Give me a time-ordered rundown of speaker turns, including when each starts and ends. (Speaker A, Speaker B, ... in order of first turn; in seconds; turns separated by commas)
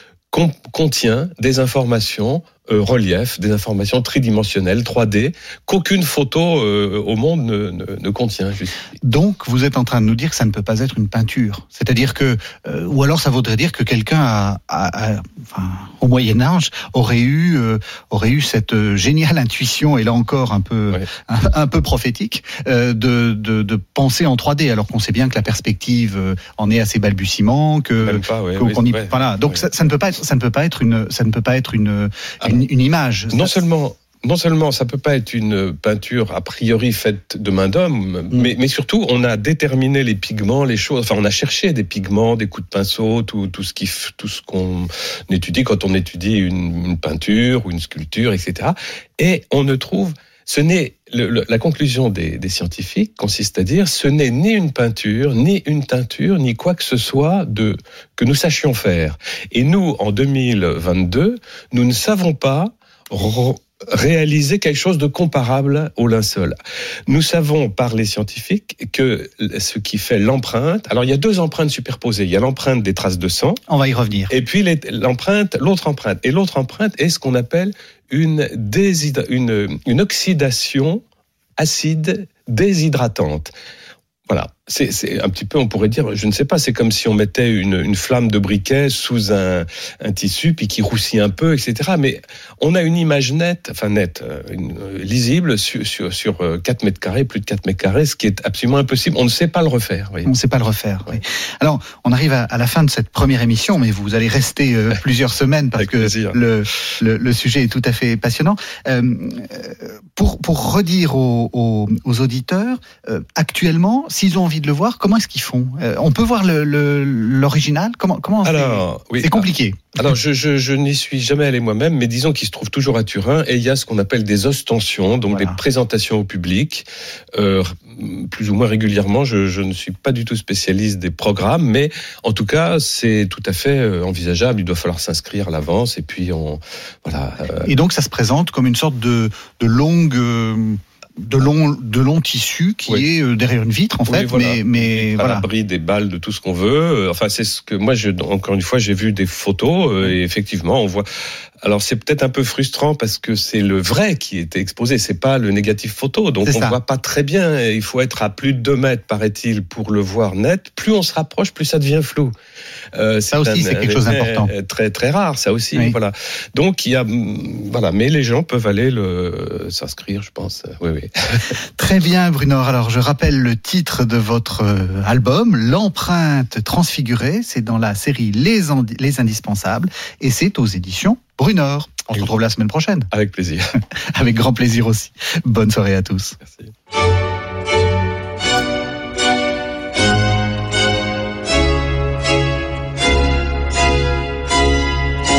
Speaker A: 0.3-8.8, Speaker B: 9.0-33.6, Speaker A: 28.0-29.6, Speaker A: 33.3-66.5, Speaker A: 67.1-73.6, Speaker B: 73.7-74.3, Speaker A: 74.3-81.0, Speaker A: 81.6-83.5, Speaker A: 84.3-100.3, Speaker B: 100.2-120.0, Speaker A: 105.8-106.4, Speaker A: 118.4-137.7, Speaker B: 125.3-125.6, Speaker B: 137.6-145.4, Speaker A: 144.1-151.1, Speaker A: 151.6-162.3, Speaker B: 156.4-156.8, Speaker A: 162.9-171.5, Speaker B: 163.3-164.5, Speaker B: 171.8-183.1, Speaker A: 183.1-183.8, Speaker B: 183.8-186.3